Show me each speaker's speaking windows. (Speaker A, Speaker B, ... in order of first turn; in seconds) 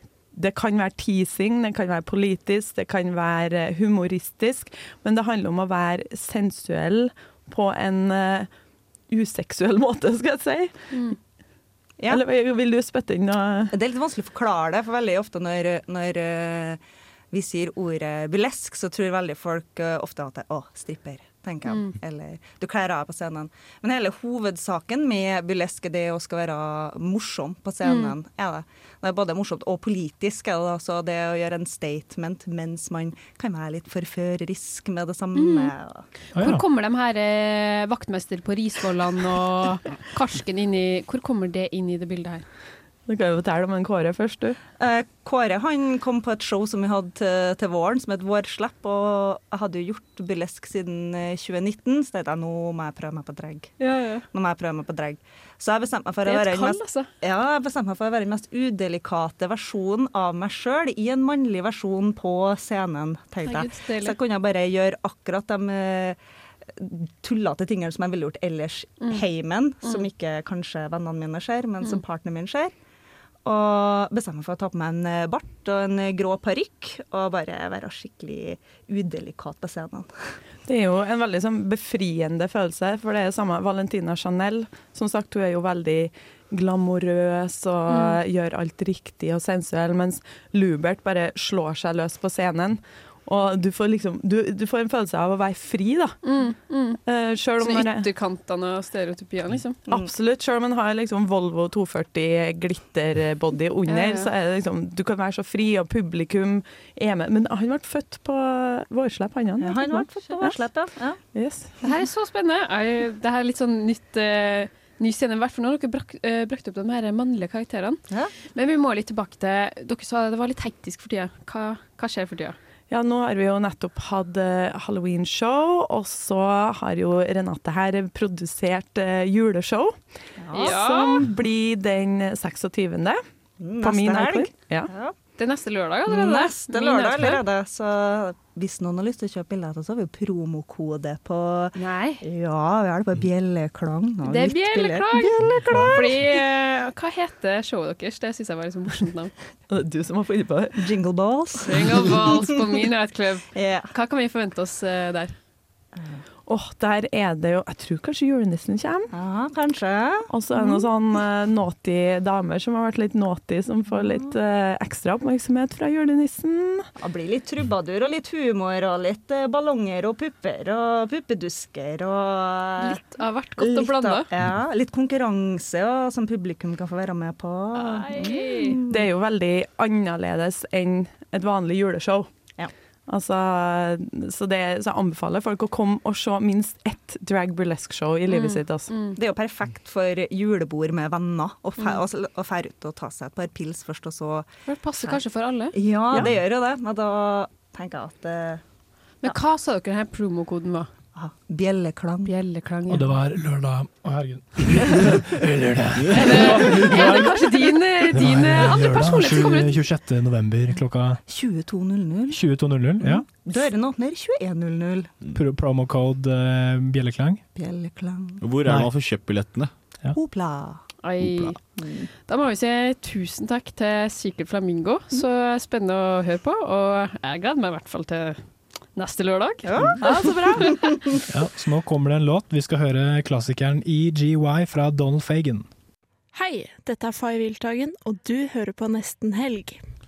Speaker A: 0.3-8.5, 9.1-11.2, 12.1-13.7, 43.1-44.6, 80.6-96.4, 97.0-98.1, 99.9-110.6, 111.3-111.7, 122.9-130.0, 130.6-133.2, 133.8-134.9, 149.7-150.8, 156.5-159.1, 160.3-166.9, 178.9-182.3, 183.1-188.9, 230.1-230.8
Speaker B: 10.9-11.2, 21.7-21.9, 27.8-28.1, 35.3-35.7, 36.4-42.4, 53.8-54.2, 56.2-57.1, 63.4-64.2, 87.9-88.2, 96.2-97.0, 97.6-99.8, 103.9-104.3, 111.8-118.0, 118.5-122.6, 130.5-131.2, 135.4-137.4, 141.8-142.2, 144.2-145.3, 145.9-149.3, 151.7-155.3, 172.8-174.3, 177.7-178.8, 188.3-189.2, 194.7-195.7, 199.2-200.9, 202.2-203.1, 206.1-209.8, 221.0-221.6, 222.3-228.4, 228.9-230.7
Speaker C: 13.7-16.8, 17.3-36.0, 44.8-53.7, 54.3-66.2, 66.8-72.7, 73.4-80.1, 109.6-111.2, 130.4-130.8, 133.6-135.1, 136.1-146.3, 150.8-152.6, 153.5-153.9, 155.9-156.2, 159.1-160.8, 163.9-164.3, 167.0-173.0, 173.6-179.0, 189.1-198.6, 201.1-202.3, 211.3-212.4, 213.0-215.1, 217.5-218.4, 220.1-220.8, 221.7-222.1, 229.6-231.1
Speaker D: 36.3-36.6, 202.9-207.3, 208.1-211.2, 212.3-213.2, 215.3-217.4, 231.3-235.7
Speaker E: 206.0-207.1, 218.4-219.7
Speaker F: 236.3-239.8